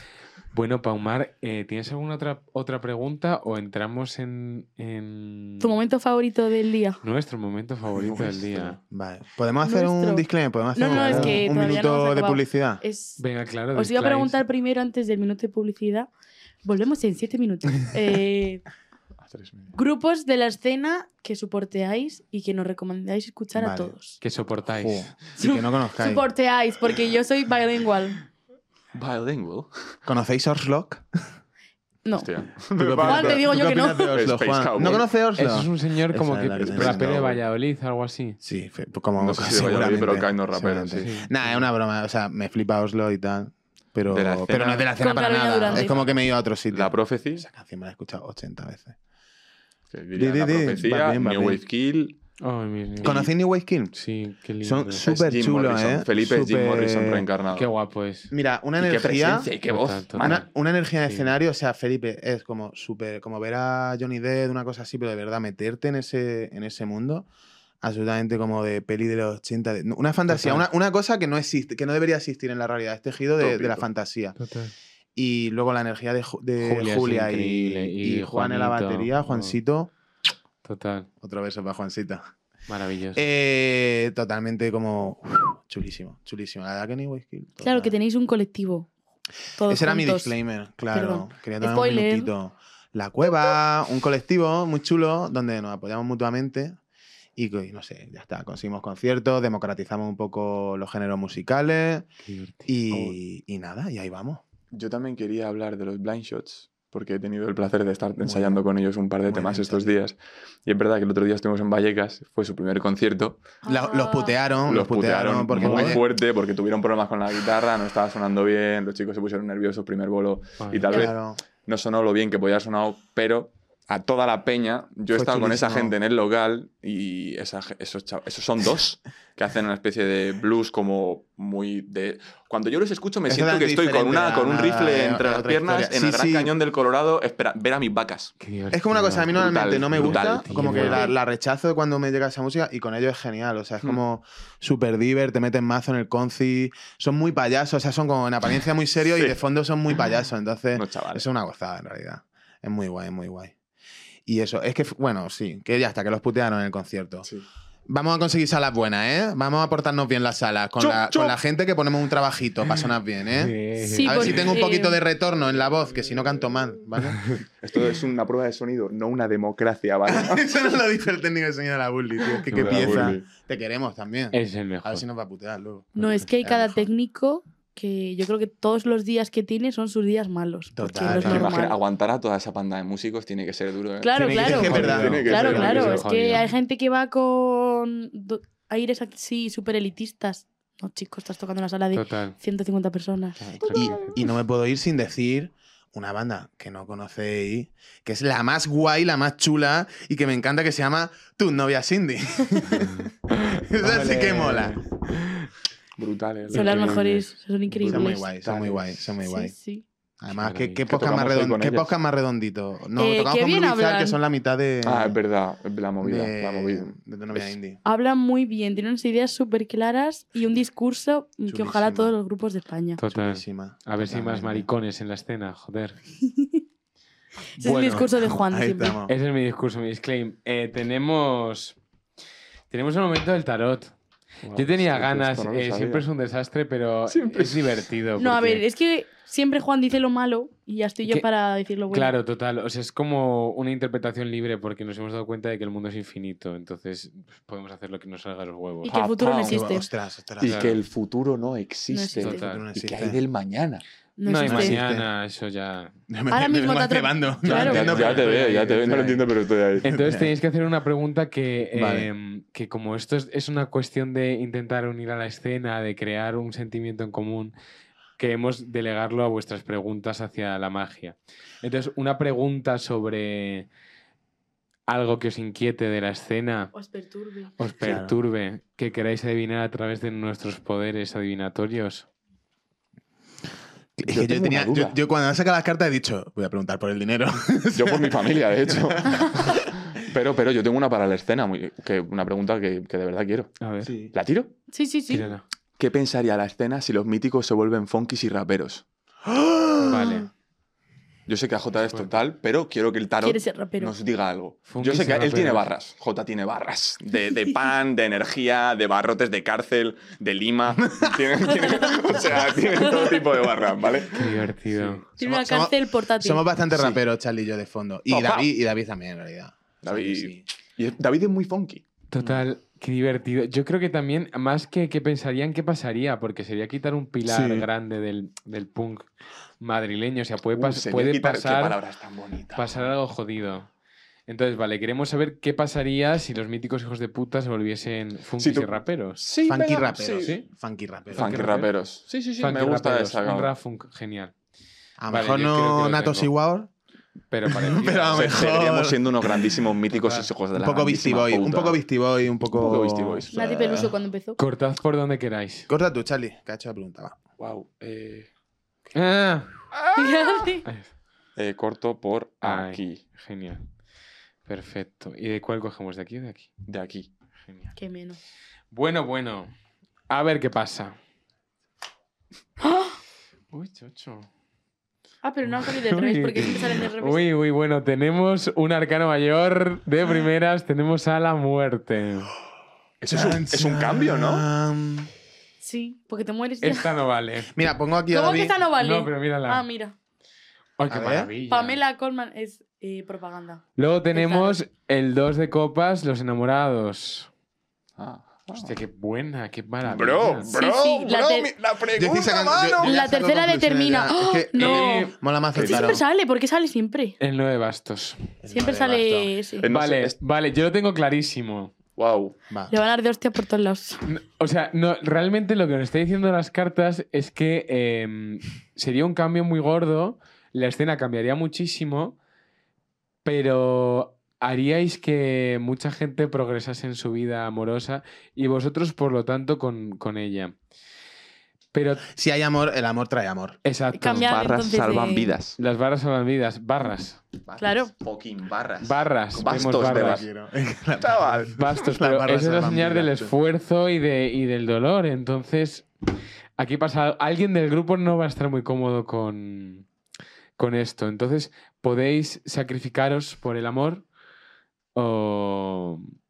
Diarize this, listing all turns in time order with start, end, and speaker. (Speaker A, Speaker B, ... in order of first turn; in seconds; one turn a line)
Speaker A: 0.5-5.8
Speaker B: 5.6-7.0
Speaker A: 7.0-8.8
Speaker C: 8.0-8.7
Speaker D: 8.8-12.8
Speaker B: 9.6-13.2
Speaker A: 10.9-11.4
Speaker A: 13.2-14.4
Speaker B: 13.7-16.1
Speaker B: 16.6-18.6
Speaker C: 19.2-19.7
Speaker B: 19.7-24.2
Speaker D: 23.5-23.9
Speaker A: 24.2-25.1
Speaker D: 24.8-26.2
Speaker B: 25.4-28.2
Speaker C: 28.9-29.7
Speaker D: 30.1-31.0
Speaker C: 32.2-35.1
Speaker D: 32.8-37.1
Speaker B: 33.0-34.1
Speaker A: 35.4-38.4
Speaker C: 36.6-37.4
Speaker D: 38.4-49.0
Speaker C: 39.1-41.1
Speaker A: 41.0-41.6
Speaker C: 44.1-44.9
Speaker B: 45.0-46.0
Speaker C: 45.7-46.1
Speaker C: 46.7-47.5
Speaker C: 49.9-52.2
Speaker D: 50.1-51.6
Speaker A: 52.4-53.3
Speaker D: 53.0-54.0
Speaker A: 53.9-55.0
Speaker D: 54.6-57.3
Speaker C: 55.0-57.7
Speaker A: 57.5-58.3
Speaker D: 58.3-59.5
Speaker C: 58.8-60.4
Speaker A: 59.7-60.5
Speaker D: 60.2-67.3
Speaker A: 61.0-61.3
Speaker D: 67.8-74.4
Speaker A: 70.3-70.7
Speaker C: 73.4-73.9
Speaker A: 74.4-74.7
Speaker D: 75.2-79.9
Speaker A: 76.6-79.6
Speaker A: 80.6-81.1
Speaker D: 81.2-82.2
Speaker A: 82.7-83.2
Speaker D: 83.1-88.0
Speaker B: 87.6-88.9
Speaker B: 89.6-90.4
Speaker D: 89.7-96.8
Speaker B: 90.9-92.3
Speaker D: 97.4-102.1
Speaker A: 102.2-102.8
Speaker D: 102.7-104.4
Speaker C: 104.7-113.4
Speaker D: 108.2-108.6
Speaker D: 109.3-110.0
Speaker B: 113.6-114.3
Speaker D: 113.7-116.0
Speaker C: 114.7-138.3
Speaker A: 115.6-116.0
Speaker A: 120.6-120.9
Speaker D: 120.9-121.4
Speaker D: 125.1-126.0
Speaker D: 133.3-136.5
Speaker A: 138.4-141.1
Speaker D: 138.7-153.5
Speaker C: 139.3-141.1
Speaker B: 140.9-141.2
Speaker C: 150.7-151.2
Speaker D: 154.3-157.3
Speaker D: 157.9-167.2
Speaker C: 160.8-161.4
Speaker A: 163.3-164.4
Speaker B: 163.8-165.0
Speaker C: 165.5-166.6
Speaker C: 167.6-170.5
Speaker D: 170.1-176.9
Speaker A: 172.5-173.1
Speaker C: 172.5-173.2
Speaker A: 174.3-175.1
Speaker B: 176.0-181.8
Speaker D: 180.8-181.5
Speaker C: 181.0-186.1
Speaker B: 184.0-194.1
Speaker A: 184.1-186.5
Speaker D: 184.3-186.0
Speaker A: 191.9-192.4
Speaker A: 193.4-194.2
Speaker D: 193.7-204.8
Speaker A: 202.8-203.1
Speaker A: 203.7-205.5
Speaker C: 206.0-209.1
Speaker A: 206.5-207.1
Speaker B: 206.5-208.2
Speaker D: 207.8-209.5
Speaker B: 209.2-209.8
Speaker D: 210.2-215.2
Speaker A: 210.3-210.8
Speaker C: 210.9-211.9
Speaker B: 213.0-214.2
Speaker C: 214.8-217.6
Speaker D: 216.0-217.8
Speaker B: 217.8-223.0
Speaker D: 221.5-222.2
Speaker A: 223.0-226.0
Speaker D: 223.1-224.7
Speaker B: 226.3-226.6
Speaker B: 227.6-229.0
Speaker A: 227.6-228.1
Speaker D: 227.8-229.1
Speaker A: 229.1-231.8
Speaker A: 232.7-233.9
Speaker C: 234.4-236.1
Speaker A: 234.5-238.6
Speaker C: 237.1-237.8
Speaker B: 238.2-242.2
Speaker A: 241.9-249.5
Speaker B: 248.8-249.8
Speaker C: 249.2-249.5
Speaker D: 249.5-250.6
Speaker C: 250.4-253.8
Speaker A: 250.4-250.8
Speaker B: 251.9-252.4
Speaker A: 252.2-252.6
Speaker D: 252.3-253.2
Speaker B: 254.2-254.8
Speaker A: 254.2-255.9
Speaker D: 254.4-255.1
Speaker D: 256.1-259.2
Speaker B: 256.3-257.9
Speaker C: 257.5-259.9
Speaker A: 257.5-259.1
Speaker A: 259.8-267.5
Speaker D: 259.9-260.3
Speaker D: 261.7-262.1
Speaker A: 268.2-273.7
Speaker A: 274.9-276.7
Speaker B: 276.7-277.6
Speaker A: 277.6-282.1
Speaker D: 277.8-278.2
Speaker D: 284.0-289.5
Speaker C: 284.1-285.0
Speaker C: 287.8-293.6
Speaker B: 289.1-289.6
Speaker A: 293.6-293.9
Speaker D: 293.8-294.1
Speaker C: 294.1-294.5
Speaker B: 294.7-295.3
Speaker A: 295.1-295.4
Speaker C: 295.8-298.9
Speaker D: 299.2-300.2
Speaker A: 299.8-300.3
Speaker C: 301.3-315.0
Speaker B: 303.2-303.9
Speaker A: 304.7-305.7
Speaker D: 310.9-311.2
Speaker D: 312.1-312.4
Speaker B: 312.7-313.2
Speaker A: 314.1-315.0
Speaker B: 315.2-316.4
Speaker D: 315.2-320.4
Speaker C: 316.7-317.0
Speaker C: 318.1-318.5
Speaker C: 319.8-322.4
Speaker A: 322.1-329.1
Speaker D: 327.3-327.7
Speaker A: 329.6-331.8
Speaker C: 330.5-332.9
Speaker A: 332.6-333.7
Speaker A: 334.3-339.2
Speaker C: 338.4-340.4
Speaker D: 339.5-341.4
Speaker A: 341.1-341.7
Speaker C: 341.1-343.5
Speaker A: 342.4-344.3
Speaker D: 345.0-346.7
Speaker A: 345.1-346.3
Speaker A: 347.3-348.5
Speaker D: 347.4-349.5
Speaker C: 347.8-351.8
Speaker A: 349.9-350.3
Speaker D: 350.6-353.9
Speaker C: 352.5-353.7
Speaker B: 353.3-354.4
Speaker A: 354.4-355.7
Speaker D: 355.7-357.2
Speaker C: 357.4-358.3
Speaker A: 358.9-359.5
Speaker C: 359.7-360.5
Speaker B: 359.9-360.7
Speaker A: 360.6-360.9
Speaker C: 361.4-363.0
Speaker A: 362.4-363.6
Speaker A: 364.5-366.5
Speaker C: 366.7-367.1
Speaker B: 367.8-368.2
Speaker A: 368.7-369.5
Speaker A: 370.1-371.0
Speaker B: 372.6-373.0
Speaker A: 373.5-374.3
Speaker B: 375.2-377.2
Speaker A: 375.5-382.3
Speaker C: 383.0-384.5
Speaker D: 383.1-385.1
Speaker B: 385.6-386.9
Speaker A: 386.6-387.5
Speaker D: 387.5-388.6
Speaker B: 388.1-389.9
Speaker A: 388.8-389.7
Speaker A: 390.8-391.8
Speaker D: 390.9-391.3
Speaker B: 391.5-394.6
Speaker A: 393.8-397.3
Speaker C: 398.0-398.8
Speaker A: 398.6-400.5
Speaker C: 399.8-403.0
Speaker B: 400.5-401.5
Speaker D: 401.9-406.0
Speaker B: 402.8-407.2
Speaker C: 404.6-404.9
Speaker C: 405.6-406.0
Speaker A: 407.2-408.2
Speaker D: 408.4-409.3
Speaker B: 408.5-409.7
Speaker C: 409.6-410.2
Speaker A: 409.6-411.7
Speaker C: 412.0-412.4
Speaker D: 412.5-412.8
Speaker B: 412.7-414.0
Speaker A: 414.1-422.2
Speaker A: 423.2-430.6
Speaker A: 431.7-432.1
Speaker D: 432.0-433.6
Speaker A: 433.6-434.3
Speaker B: 433.9-435.3
Speaker C: 434.1-435.6
Speaker A: 435.6-437.2
Speaker C: 437.4-440.3
Speaker B: 437.6-437.9
Speaker A: 438.8-440.3
Speaker D: 439.5-443.3
Speaker C: 441.0-441.9
Speaker A: 441.6-445.9
Speaker A: 446.6-449.9
Speaker A: 450.6-454.1
Speaker A: 454.9-456.1